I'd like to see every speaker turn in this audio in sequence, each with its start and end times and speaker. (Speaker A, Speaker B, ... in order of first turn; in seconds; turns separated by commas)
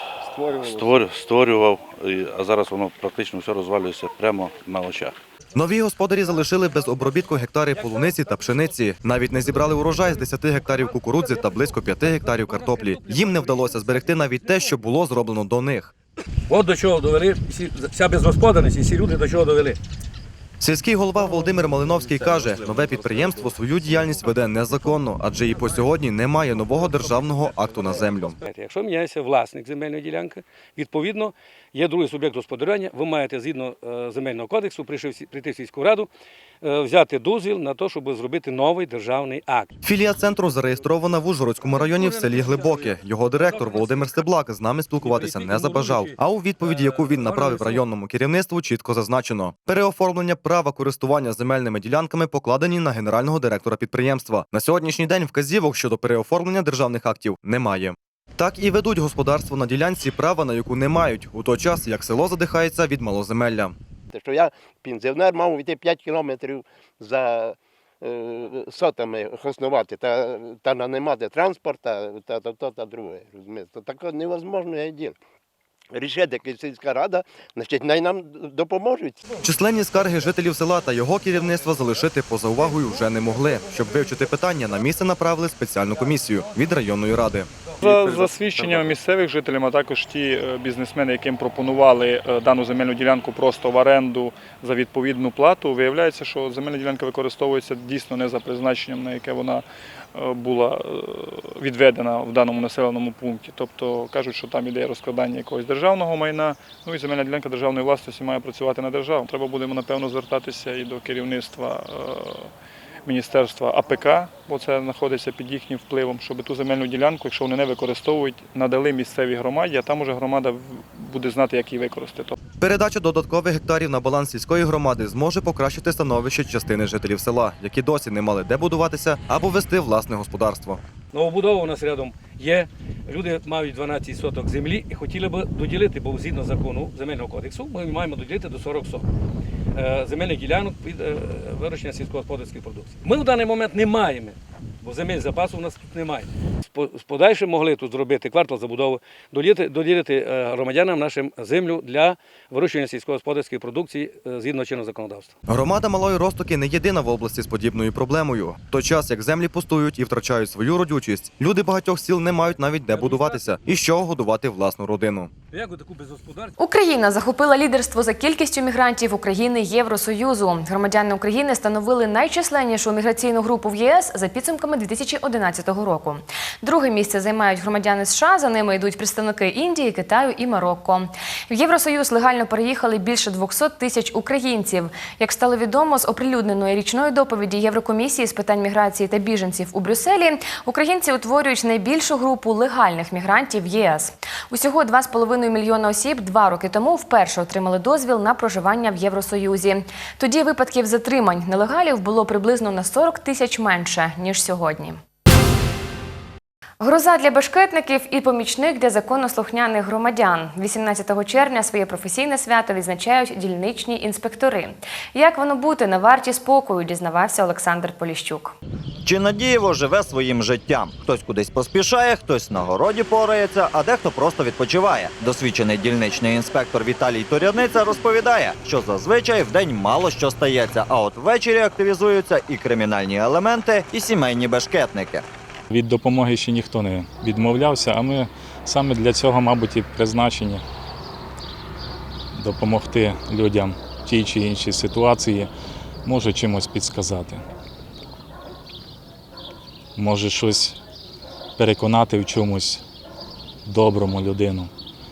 Speaker A: 0.5-5.2, Speaker B: 5.5-15.9, Speaker C: 16.5-19.8, Speaker B: 20.6-28.4, Speaker C: 28.4-36.1, Speaker C: 36.6-39.7, Speaker B: 39.8-63.8, Speaker C: 41.9-42.9, Speaker C: 43.4-44.1, Speaker C: 45.0-47.8, Speaker D: 64.1-75.2, Speaker D: 75.9-79.2, Speaker B: 79.4-87.5, Speaker E: 87.8-99.6, Speaker C: 87.9-89.0, Speaker E: 100.1-112.5, Speaker E: 113.0-122.3, Speaker B: 122.6-130.8, Speaker C: 131.1-139.0, Speaker C: 139.7-155.3, Speaker B: 155.5-165.3, Speaker C: 162.9-163.4, Speaker C: 165.5-166.5, Speaker F: 166.6-205.0, Speaker F: 206.8-218.5, Speaker G: 219.0-235.2, Speaker H: 235.7-240.6, Speaker H: 242.3-245.5, Speaker H: 246.0-247.4, Speaker H: 250.0-250.8, Speaker H: 251.6-252.8, Speaker H: 253.7-254.7